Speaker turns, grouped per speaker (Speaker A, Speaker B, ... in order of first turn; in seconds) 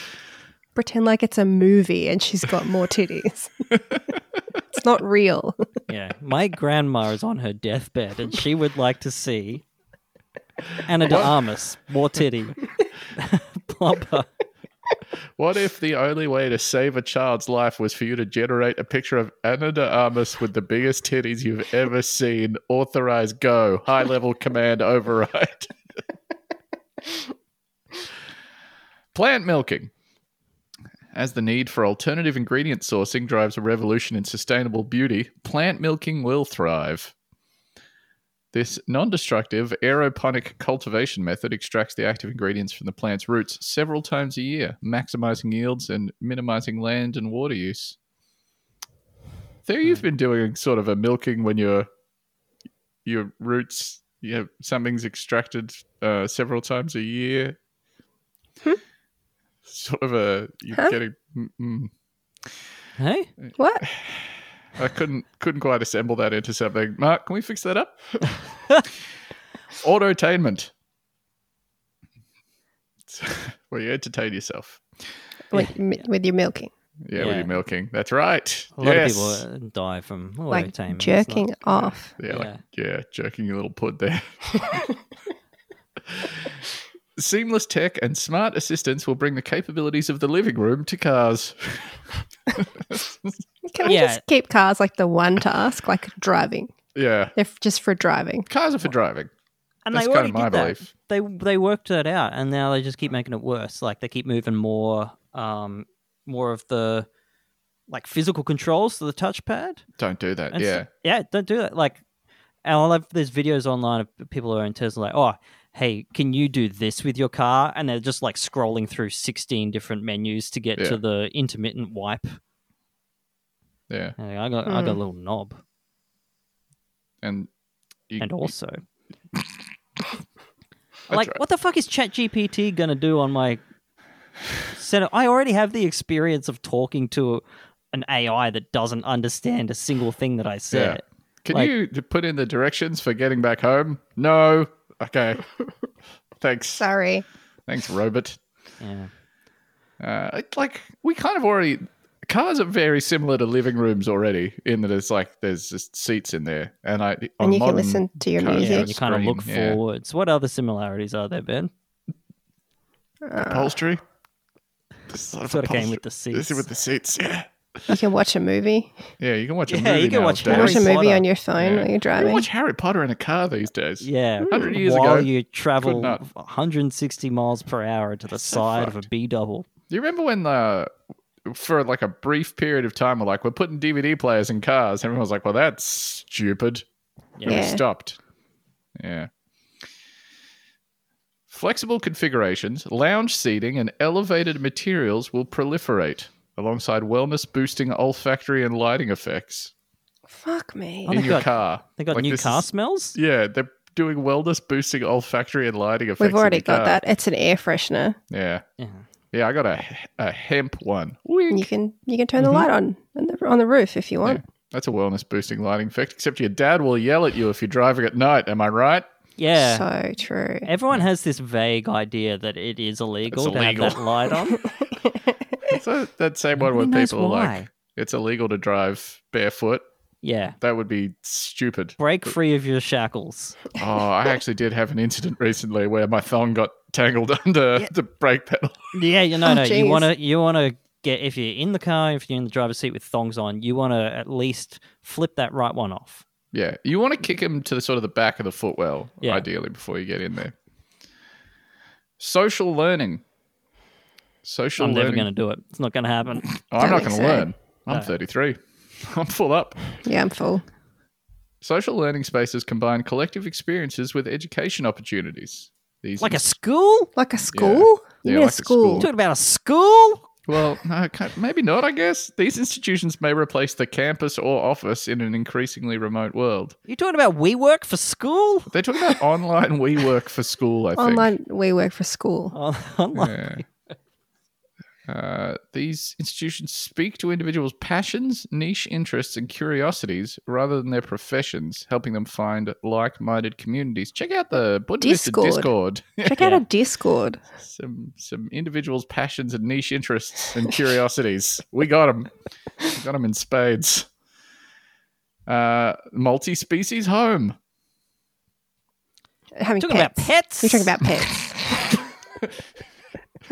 Speaker A: 0.8-3.7, 4.7-5.6, 63.6-63.8, 75.5-76.7, 80.5-82.1, 93.7-96.7, 97.3-98.5, 124.7-125.0, 146.8-147.2, 157.4-158.9, 163.2-163.7, 167.9-168.9, 170.4-172.4, 187.4-187.8, 200.3-201.2, 206.2-208.2, 211.5-214.4, 219.6-220.7, 239.4-240.1, 256.8-257.5, 260.0-260.6, 267.1-269.1, 281.0-282.5, 295.0-295.7, 296.2-297.4, 309.6-312.0
Speaker B: 5.9-9.6, 10.8-12.6, 13.1-14.3, 63.0-63.3, 77.1-77.5, 78.8-81.5, 82.3-82.6, 93.8-94.2, 99.8-107.1, 107.9-109.8, 110.5-112.0, 112.6-122.4, 124.2-125.6, 128.2-128.8, 131.1-133.6, 134.7-141.7, 148.8-149.1, 158.5-161.7, 165.5-166.6, 169.7-171.2, 174.0-179.7, 187.4-187.6, 201.1-203.2, 208.8-209.0, 219.4-219.8, 220.6-224.6, 226.6-227.7, 230.2-230.6, 232.0-233.6, 238.9-246.2, 254.8-256.5, 266.2-267.1, 269.0-270.2, 276.9-278.7, 282.5-283.7, 296.4-296.6, 309.8-311.0
Speaker C: 11.0-11.3, 15.4-25.7, 29.1-29.9, 31.1-37.1, 38.5-48.0, 49.6-51.9, 53.0-57.5, 59.7-61.9, 63.8-68.0, 69.8-70.7, 73.1-75.1, 77.0-79.4, 81.7-84.9, 86.1-86.5, 87.2-93.4, 96.9-97.3, 98.5-99.3, 99.9-100.9, 110.0-110.9, 123.9-124.1, 127.2-127.5, 128.1-128.5, 131.1-131.4, 140.7-145.4, 146.4-146.8, 147.7-148.4, 150.0-159.8, 163.4-164.0, 165.1-167.9, 169.2-170.9, 171.6-176.2, 178.3-179.0, 179.9-180.9, 181.4-186.8, 187.4-188.2, 188.9-189.3, 191.5-199.7, 201.1-207.0, 208.3-208.6, 209.3-211.7, 212.4-212.7, 214.2-219.1, 223.3-224.1, 225.7-229.8, 230.6-232.3, 233.8-238.9, 246.5-250.5, 252.2-253.2, 254.4-255.3, 256.5-259.8, 261.6-266.5, 267.5-269.1, 270.5-276.8, 278.7-281.3, 283.1-283.6, 285.1-296.4, 297.6-302.3, 302.9-304.1, 305.5-307.6